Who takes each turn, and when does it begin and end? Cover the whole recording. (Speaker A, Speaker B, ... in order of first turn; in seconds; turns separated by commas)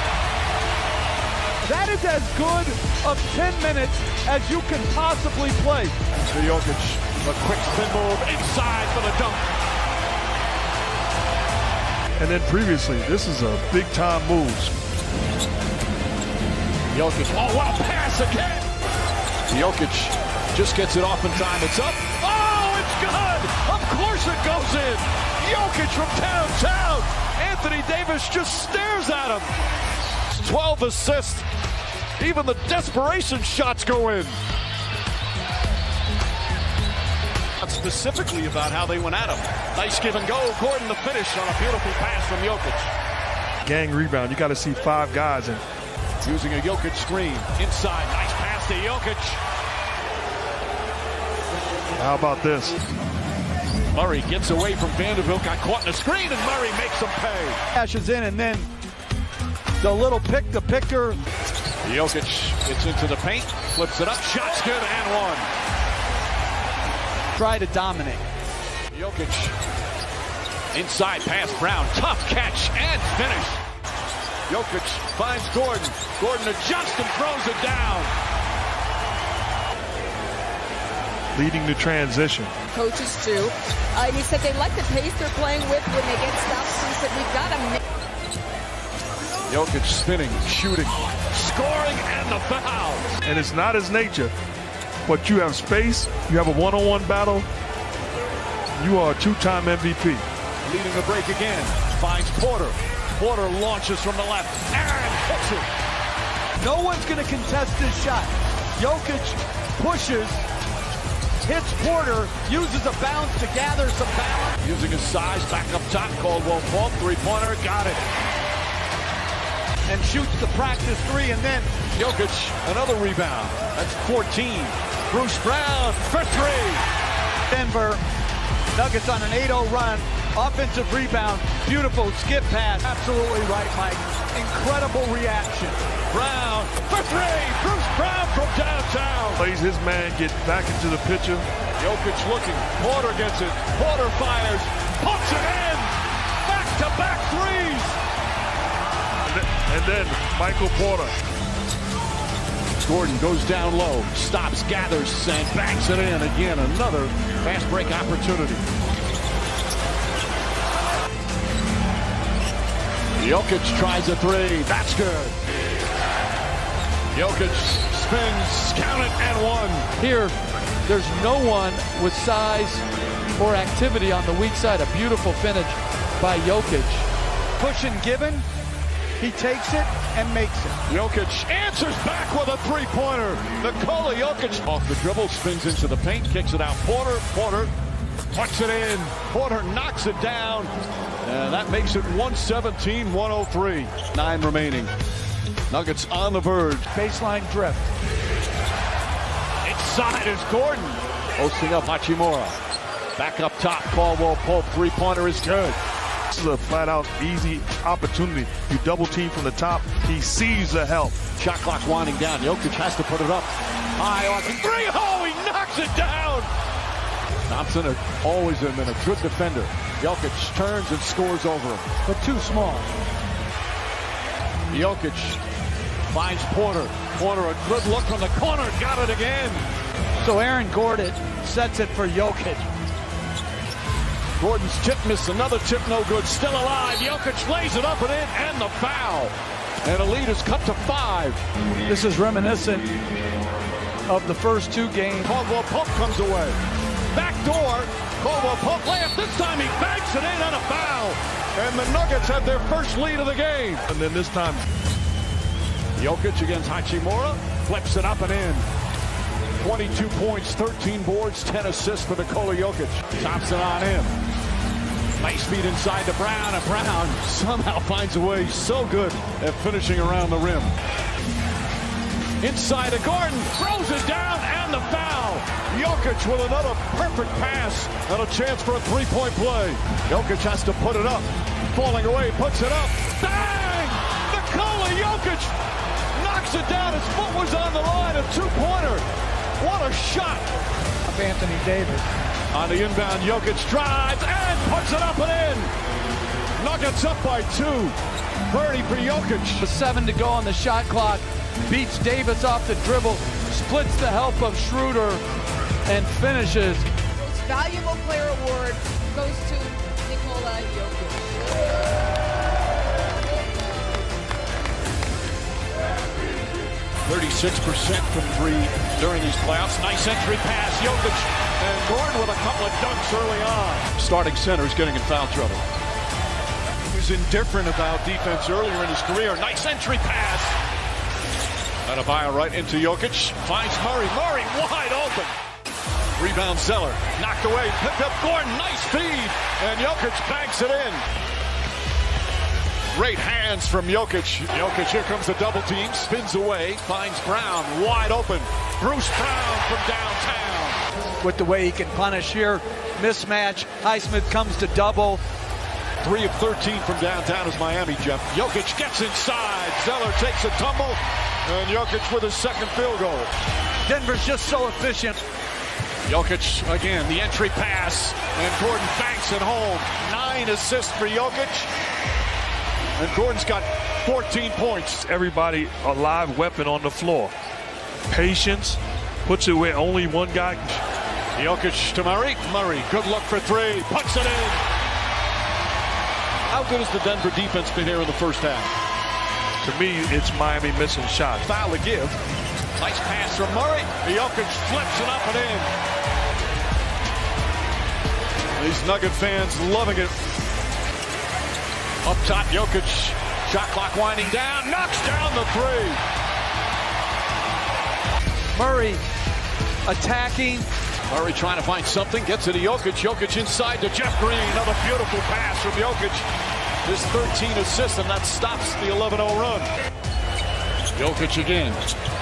Speaker A: 1.6-6.0, Speaker B: 6.3-9.5, Speaker C: 12.2-14.7, Speaker B: 16.9-18.6, Speaker B: 19.5-29.5, Speaker B: 30.3-31.5, Speaker B: 32.2-34.4, Speaker B: 37.6-42.9, Speaker C: 43.6-45.6, Speaker B: 46.2-49.4, Speaker C: 51.9-52.8, Speaker B: 53.9-57.6, Speaker A: 57.7-58.7, Speaker A: 59.8-61.2, Speaker B: 61.8-65.5, Speaker A: 67.3-68.2, Speaker B: 68.9-69.5, Speaker B: 70.7-73.6, Speaker B: 74.5-78.1, Speaker C: 81.3-82.5, Speaker D: 82.7-87.8, Speaker B: 89.5-93.1, Speaker C: 93.2-94.3, Speaker C: 95.0-97.5, Speaker C: 98.8-100.2, Speaker B: 100.6-105.7, Speaker A: 106.6-110.4, Speaker A: 111.4-114.6, Speaker B: 114.6-118.0, Speaker A: 119.9-121.7, Speaker B: 121.9-126.8, Speaker A: 127.5-128.0, Speaker A: 128.7-135.8, Speaker B: 136.1-139.4, Speaker C: 139.4-141.4, Speaker B: 141.8-145.9, Speaker B: 146.4-148.0, Speaker C: 149.2-151.1, Speaker B: 152.8-158.6, Speaker B: 163.2-165.3, Speaker B: 167.1-169.9, Speaker A: 170.0-172.8, Speaker A: 173.4-178.4, Speaker A: 179.2-180.8, Speaker B: 180.9-187.7, Speaker B: 188.3-190.7, Speaker B: 191.2-194.9, Speaker B: 195.7-196.8, Speaker A: 196.9-197.9, Speaker B: 199.6-202.6, Speaker B: 203.2-205.8, Speaker C: 206.3-211.2, Speaker B: 211.3-216.5, Speaker B: 217.5-221.9, Speaker A: 222.1-223.0, Speaker B: 224.7-225.4, Speaker B: 226.1-229.7, Speaker A: 230.2-232.7, Speaker B: 234.4-241.4, Speaker A: 241.9-242.9, Speaker A: 244.1-245.3, Speaker B: 245.2-246.6, Speaker B: 247.1-253.8, Speaker C: 253.9-254.6, Speaker B: 255.9-258.6, Speaker B: 259.6-264.1, Speaker B: 265.2-270.7, Speaker B: 272.4-285.5, Speaker B: 286.1-289.0, Speaker B: 289.6-290.5, Speaker A: 291.1-292.1, Speaker B: 292.5-295.7, Speaker B: 296.6-297.9, Speaker B: 298.5-299.6, Speaker A: 299.6-305.2, Speaker A: 305.9-306.9, Speaker D: 307.1-311.4, Speaker B: 317.1-325.6, Speaker B: 326.9-330.6, Speaker B: 331.8-335.3, Speaker B: 336.2-341.0, Speaker B: 342.9-350.8, Speaker A: 351.2-355.2, Speaker B: 356.0-363.3, Speaker A: 363.8-365.2, Speaker B: 366.1-371.7, Speaker B: 373.0-375.0, Speaker C: 375.0-377.3, Speaker C: 378.1-380.8, Speaker B: 381.4-384.6, Speaker B: 386.5-388.7, Speaker C: 389.6-391.5, Speaker B: 391.4-392.2, Speaker B: 392.8-395.7, Speaker B: 398.6-400.1, Speaker B: 402.0-406.0, Speaker A: 408.5-409.0, Speaker A: 409.9-410.7, Speaker B: 411.1-416.2, Speaker B: 416.8-419.7, Speaker B: 420.9-421.9